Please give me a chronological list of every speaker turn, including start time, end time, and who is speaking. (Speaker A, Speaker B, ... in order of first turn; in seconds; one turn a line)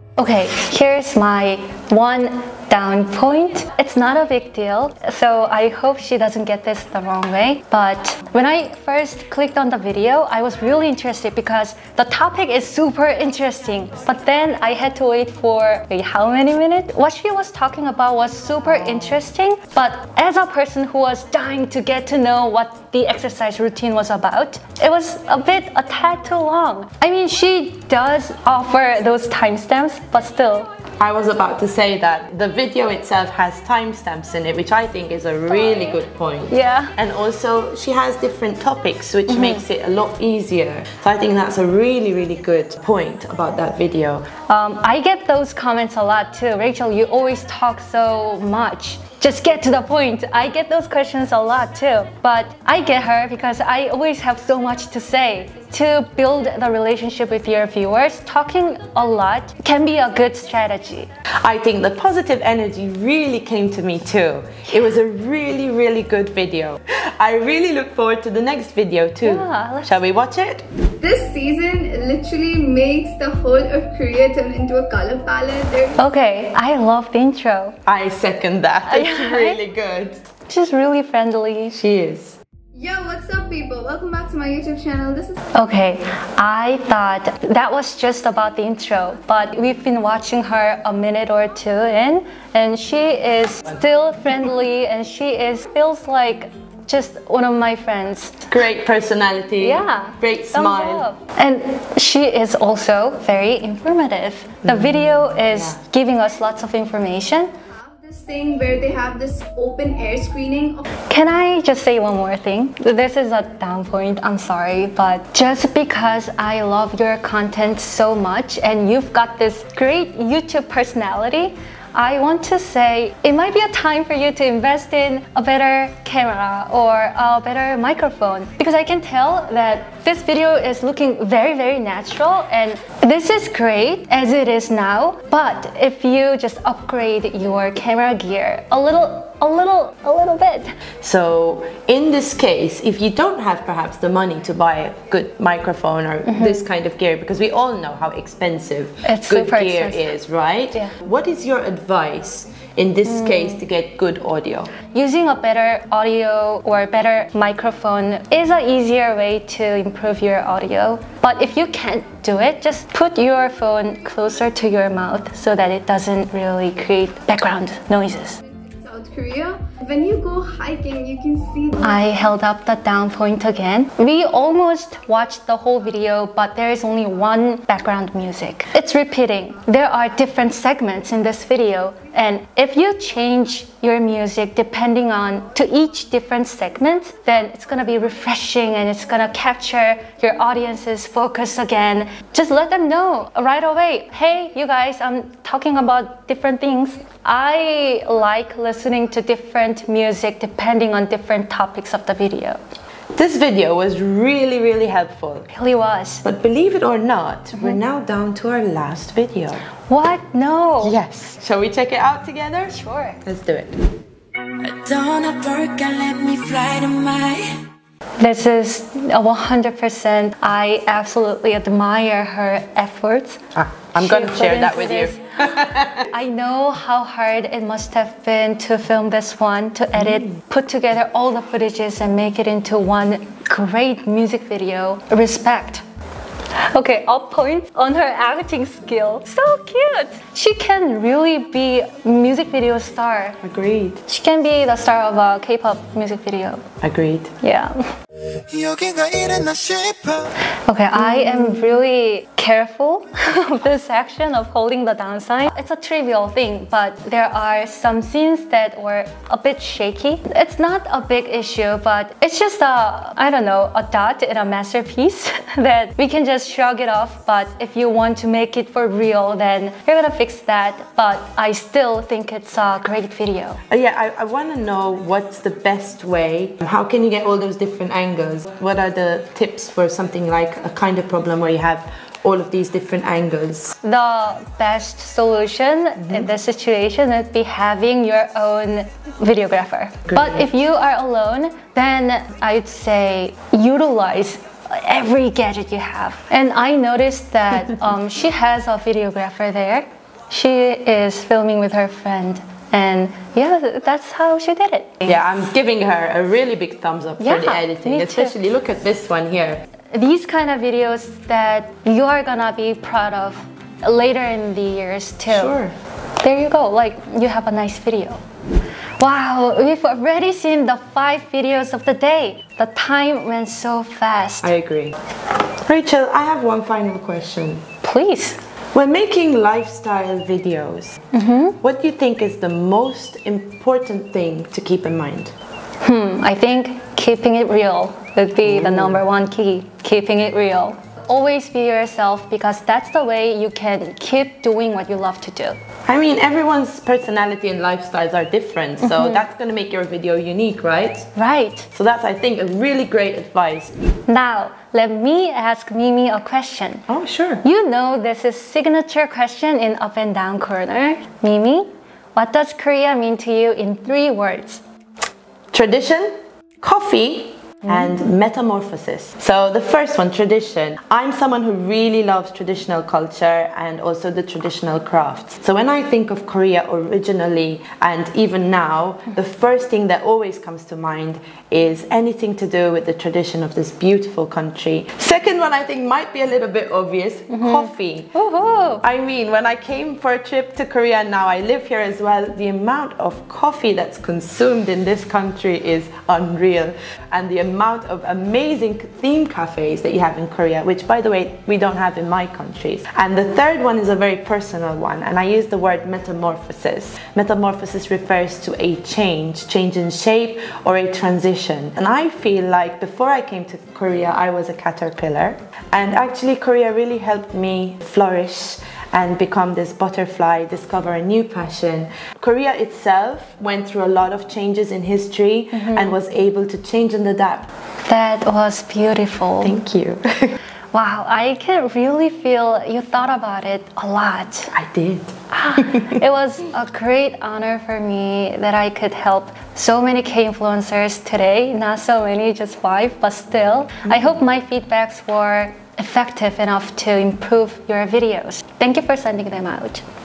Speaker A: 0.2-30.7
Speaker B: 18.6-19.2
Speaker B: 31.0-44.3
Speaker A: 35.5-36.9
Speaker A: 39.3-39.6
Speaker A: 44.5-61.1
Speaker B: 61.4-70.7
Speaker A: 69.2-70.0
Speaker C: 71.0-76.0
Speaker A: 76.0-77.8
Speaker B: 77.9-80.2
Speaker A: 78.9-79.6
Speaker A: 80.5-81.8
Speaker B: 81.7-82.4
Speaker C: 82.8-85.4
Speaker A: 85.5-98.5
Speaker B: 98.5-101.1
Speaker A: 99.6-107.5
Speaker B: 104.6-105.8
Speaker C: 107.8-110.9
Speaker A: 111.1-140.7
Speaker B: 141.0-154.7
Speaker A: 146.3-146.6
Speaker A: 149.1-150.1
Speaker A: 153.1-153.6
Speaker A: 154.9-168.4
Speaker C: 168.8-171.9
Speaker A: 171.8-202.6
Speaker B: 203.1-205.5
Speaker A: 205.5-206.2
Speaker B: 206.2-209.7
Speaker A: 209.9-211.0
Speaker B: 210.8-213.7
Speaker A: 212.7-213.2
Speaker D: 214.6-217.5
Speaker A: 218.2-223.4
Speaker B: 223.6-226.1
Speaker A: 223.9-235.8
Speaker B: 230.0-230.4
Speaker A: 236.6-243.4
Speaker B: 243.4-244.0
Speaker A: 244.1-246.7
Speaker B: 246.8-247.3
Speaker A: 247.4-247.8
Speaker D: 248.5-250.2
Speaker A: 250.6-273.6
Speaker B: 251.0-251.4
Speaker B: 273.7-283.8
Speaker A: 283.8-305.2
Speaker B: 290.1-290.5
Speaker B: 305.1-309.7
Speaker A: 307.2-308.4
Speaker A: 309.9-315.6
Speaker B: 315.3-315.8
Speaker A: 316.2-318.2
Speaker A: 319.0-324.5
Speaker B: 324.4-325.0
Speaker B: 325.6-327.6
Speaker A: 327.8-328.4
Speaker B: 328.7-331.0
Speaker A: 331.1-331.6
Speaker B: 331.6-335.3
Speaker A: 335.8-345.6
Speaker B: 338.4-339.0
Speaker B: 345.9-351.1
Speaker A: 348.8-349.2
Speaker A: 351.2-351.7
Speaker B: 351.7-353.7
Speaker A: 354.1-356.9
Speaker B: 356.9-357.4
Speaker A: 357.4-364.6
Speaker B: 365.5-388.1
Speaker A: 387.3-388.8
Speaker B: 388.8-427.5
Speaker A: 425.5-425.9
Speaker A: 427.8-429.6
Speaker B: 429.4-430.4
Speaker A: 430.7-434.5
Speaker B: 434.5-436.0
Speaker A: 435.3-449.8
Speaker B: 443.9-444.2